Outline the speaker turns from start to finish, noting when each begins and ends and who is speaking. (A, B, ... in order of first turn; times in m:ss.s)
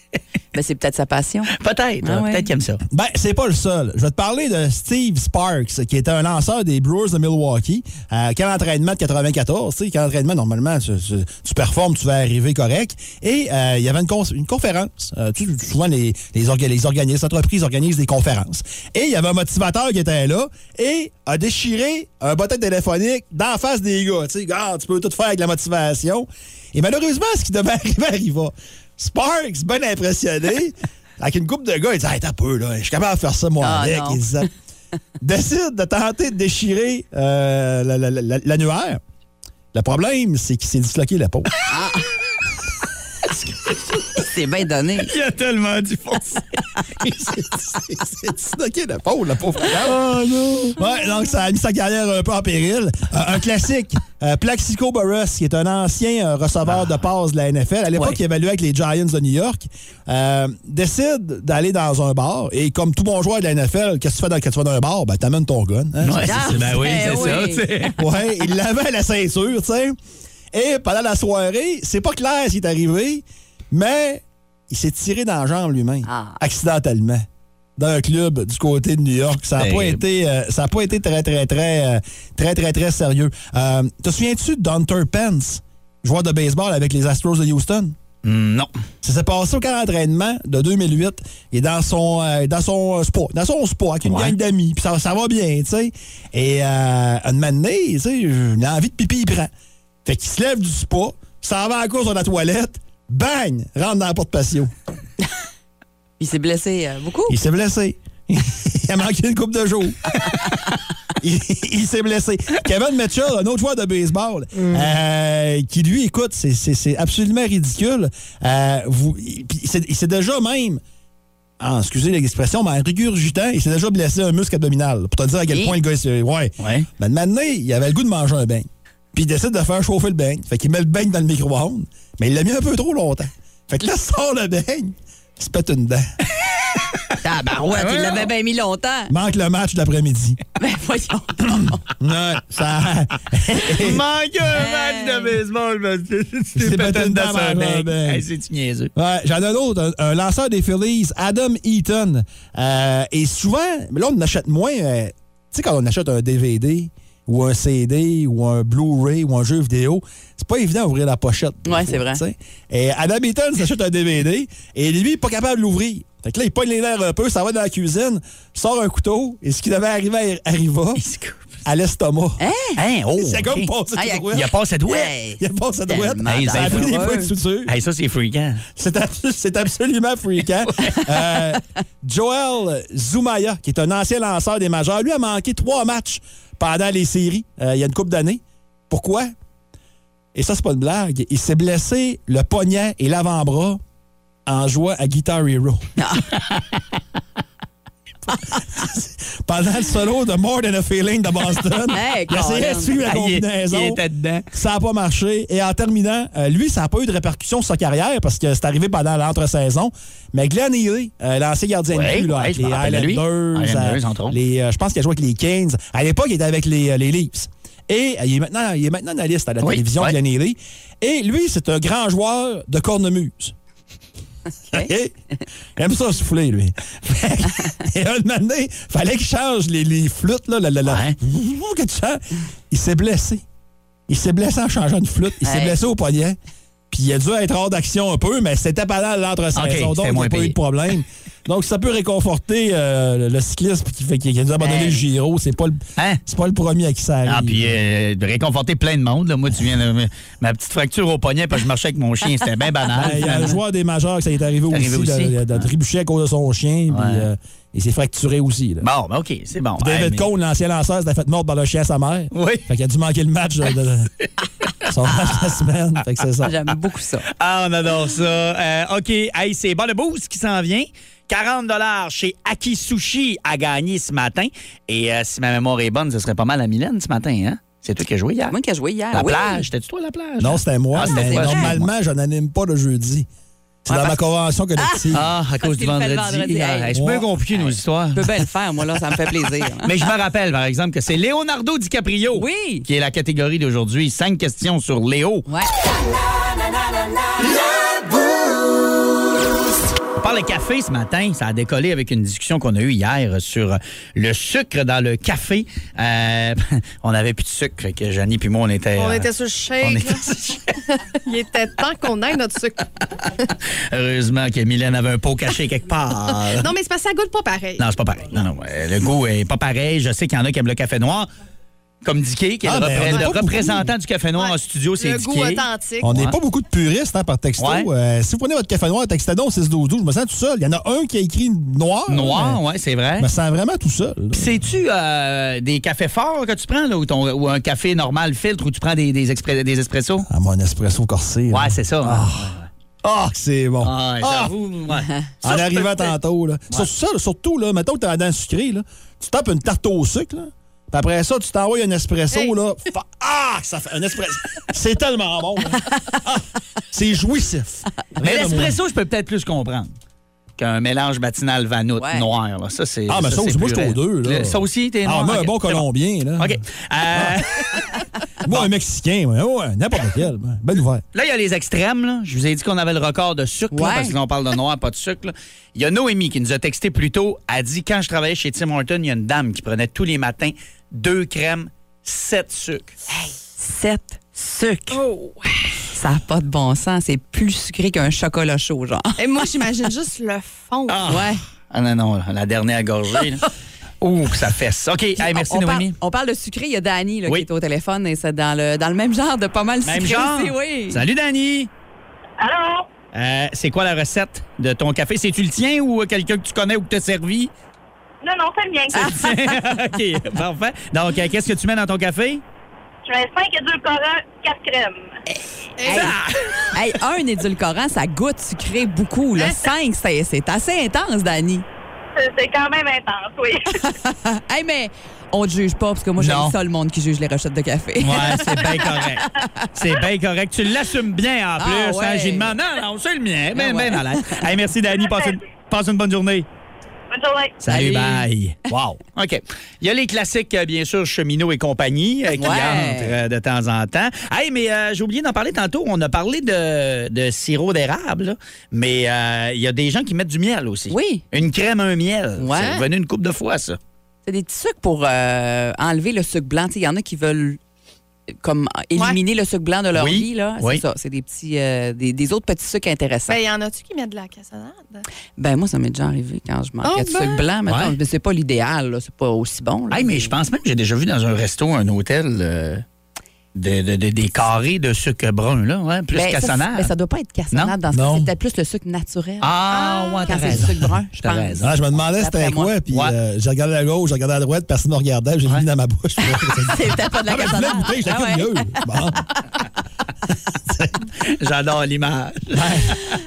0:00.5-0:02.5 A
0:01.5-0:02.8 B
0:02.9-0:34.5 C
0:33.6-0:34.4 A
0:35.2-0:39.0 C
0:39.7-0:41.5 C
0:41.7-0:42.1 A
0:44.1-0:45.1 A
0:45.0-0:47.3 B
0:47.0-1:07.4 C
0:56.7-0:57.0 B
1:06.0-1:08.0 B
1:06.2-1:07.6 A
1:08.0-1:10.0 C
1:10.5-1:28.0 C
1:16.0-1:16.4 A
1:19.6-1:20.0 B
1:28.2-1:28.7 B
1:29.0-1:39.5 C
1:34.0-1:34.4 B
1:40.0-1:44.7 C
1:46.2-1:47.4 A
1:47.3-1:50.1 C
1:51.2-2:00.8 C
2:01.6-2:16.1 C
2:06.6-2:06.9 B
2:17.2-2:19.1 A
2:17.6-2:18.3 B
2:19.1-2:20.4 C
2:20.6-2:21.8 A
2:22.0-2:24.0 C
2:23.7-2:28.9 B
2:24.5-2:25.4 A
2:26.6-2:28.2 C
2:28.9-2:51.0 C
2:41.6-2:42.2 A
2:51.0-2:51.5 B
2:51.6-2:52.4 C
2:52.4-2:52.8 A
2:52.8-2:53.7 B
2:53.2-2:54.5 C
2:53.9-2:54.3 A
2:54.3-2:55.1 B
2:54.9-2:57.3 A
2:55.4-2:57.7 C
2:56.2-2:57.0 B
2:57.6-2:58.6 B
2:58.8-3:09.3 C
3:10.3-3:13.8 C
3:14.4-3:15.8 C
3:16.0-3:16.3 A
3:16.4-3:16.6 B
3:18.7-3:43.5 C
3:21.9-3:23.1 A
3:23.0-3:24.4 B
3:31.9-3:34.4 B
3:39.6-3:40.1 B
3:44.7-3:45.1 C
3:45.8-3:53.4 C
3:50.8-3:51.2 B
3:54.1-3:56.4 C
3:55.4-3:55.8 A
3:56.9-4:07.7 C
3:59.5-4:00.6 B
4:04.6-4:05.0 A
4:07.2-4:13.6 B
4:12.9-4:18.9 C
4:14.7-4:15.7 B
4:16.9-4:17.2 B
4:18.8-4:20.3 B
4:19.8-4:24.1 C
4:22.3-4:22.6 B
4:24.8-4:26.6 C
4:25.2-4:25.4 A
4:26.4-4:27.2 A
4:27.4-4:38.5 B
4:38.5-4:39.6 A
4:39.1-4:41.9 B
4:40.4-4:43.3 C
4:41.0-4:41.7 A
4:43.8-4:45.3 C
4:44.8-4:46.9 A
4:45.1-4:48.4 B
4:46.9-4:47.3 C
4:47.5-4:49.9 A
4:49.8-4:55.4 B
4:52.3-4:52.8 A
4:55.5-4:55.7 A
5:00.2-5:10.6 B
5:09.0-5:10.2 D
5:11.2-5:12.9 D
5:13.9-5:16.7 B
5:16.6-5:17.8 D
5:17.8-5:21.3 B
5:22.0-5:26.3 B
5:22.6-5:23.9 C
5:24.4-5:26.1 D
5:26.0-5:32.6 C
5:27.6-5:27.9 B
5:32.1-5:33.3 B
5:33.2-5:34.6 C
5:34.3-5:40.3 B
5:40.3-5:44.5 C
5:41.5-5:42.7 B
5:43.8-5:45.9 B
5:45.4-5:58.8 C
5:58.2-5:59.9 B
6:00.6-6:05.8 B
6:02.0-6:02.2 A
6:03.1-6:06.6 C
6:06.4-6:08.7 B
6:07.1-6:07.4 C
6:08.4-6:11.0 C
6:11.1-6:23.0 B
6:13.7-6:14.1 A
6:23.1-6:25.0 A
6:24.9-6:25.6 D
6:25.9-6:29.2 A
6:29.2-6:31.0 D
6:30.9-6:33.4 B
6:31.1-6:31.4 A
6:34.0-6:36.0 B
6:35.2-6:41.0 A
6:39.8-6:41.7 B
6:42.4-6:42.9 E
6:43.1-6:47.5 B
6:48.2-6:49.2 E
6:48.9-6:52.4 B
6:48.9-6:49.4 A
6:53.0-6:55.1 E
6:55.8-6:56.2 D
6:55.8-6:56.2 A
6:55.9-6:56.3 B
6:56.7-7:01.6 A
7:02.2-7:03.7 E
7:03.7-7:09.7 A
7:06.2-7:06.5 B
7:08.0-7:16.5 B
7:11.6-7:12.5 A
7:13.5-7:14.4 A
7:17.1-7:17.6 E
7:17.6-7:33.8 B
7:17.7-7:18.3 A
7:22.4-7:23.1 A
7:30.9-7:31.2 A
7:32.4-7:32.8 A
7:34.2-7:37.6 A
7:38.4-7:43.4 A
7:39.9-7:40.8 B
7:43.3-7:45.0 D
7:45.4-7:50.3 A
7:46.8-7:47.4 D
7:47.7-7:48.0 B
7:49.9-7:52.8 B
7:53.5-7:56.9 B
7:56.1-8:02.7 A
7:57.9-7:58.3 C
7:59.4-8:01.7 B
7:59.8-8:00.2 D
8:01.6-8:09.2 C
8:06.6-8:08.8 A
8:10.6-8:11.0 C
8:11.2-8:13.0 B
8:12.5-8:13.0 C